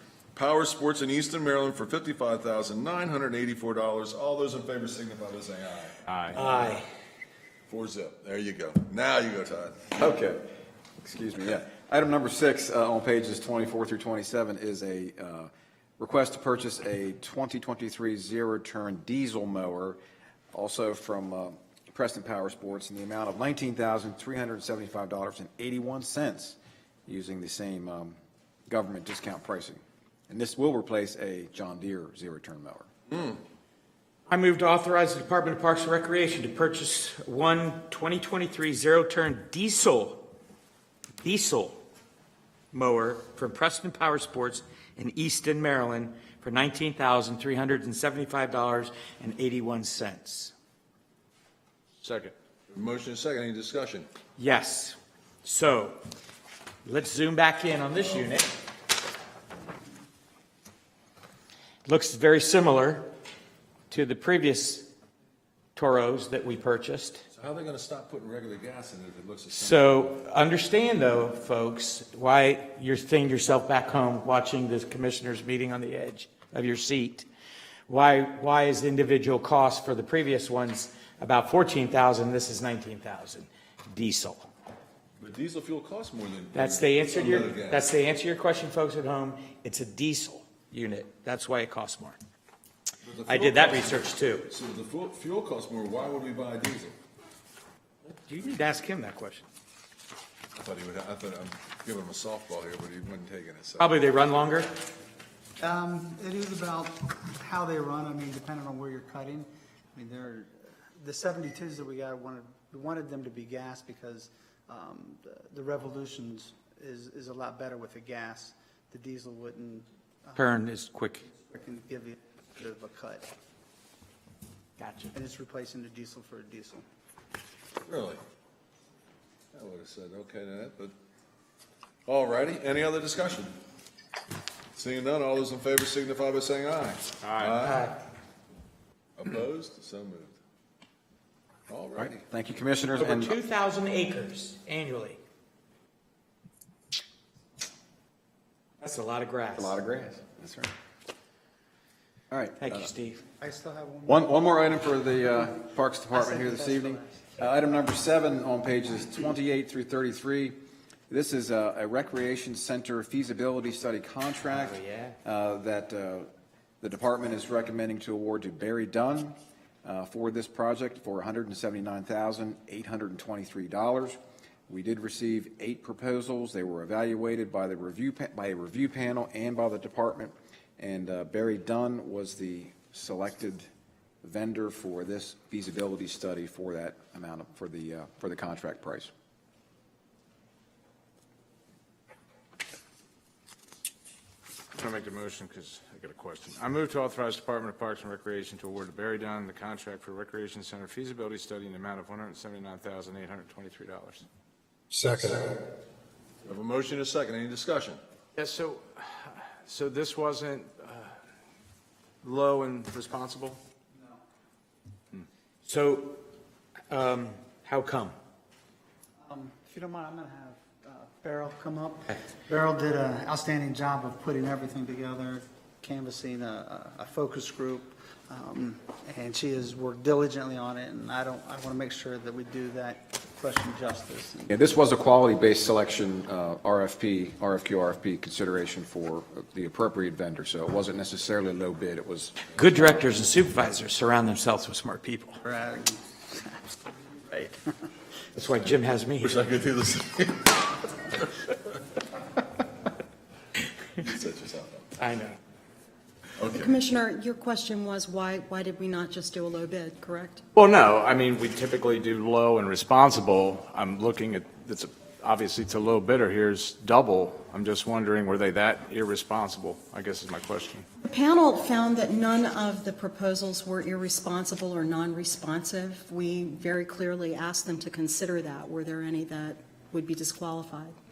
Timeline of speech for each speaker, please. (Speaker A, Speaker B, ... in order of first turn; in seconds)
Speaker A: 0.3-6.0, 7.7-9.9, 52.7-54.1, 67.3-70.0, 85.2-87.8, 93.0-97.0, 100.6-103.9, 127.8-128.2, 129.5-130.9, 132.1-133.5, 134.7-137.9, 139.2-140.4, 141.7-142.2, 206.4-208.0, 249.2-250.6, 254.0-254.9, 256.4-256.7
Speaker B: 6.1-6.4, 52.0-52.3, 137.2-137.6, 194.8-204.2, 208.4-211.1, 212.2-213.6, 260.6-270.9
Speaker C: 6.3-6.8, 34.3-40.3, 41.2-41.8, 42.7-50.5, 54.4-56.0, 56.9-58.5, 61.9-63.1, 63.9-64.9, 65.8-67.3, 69.5-77.3, 77.9-84.5, 86.5-92.2, 93.3-94.5, 98.2-99.5, 103.8-104.7, 120.4-121.2, 124.8-125.1, 137.6-137.9, 143.0-145.2, 148.8-149.8, 152.6-153.2, 164.8-165.1, 215.7-216.2, 216.9-218.2, 242.5-245.4, 248.3-249.4, 255.0-255.4
Speaker D: 10.0-20.0, 20.5-28.2, 28.7-32.9, 142.0-143.4, 149.6-150.7, 152.3-152.9, 154.1-160.6, 161.1-166.3, 166.8-183.7, 184.2-189.1, 234.5-242.5
Speaker E: 105.6-120.5, 121.5-123.3, 125.1-126.8, 153.4-154.3, 156.1-157.1, 219.2-234.5, 245.4-246.6, 247.3-247.6
Speaker F: 256.5-260.5, 271.0-280.9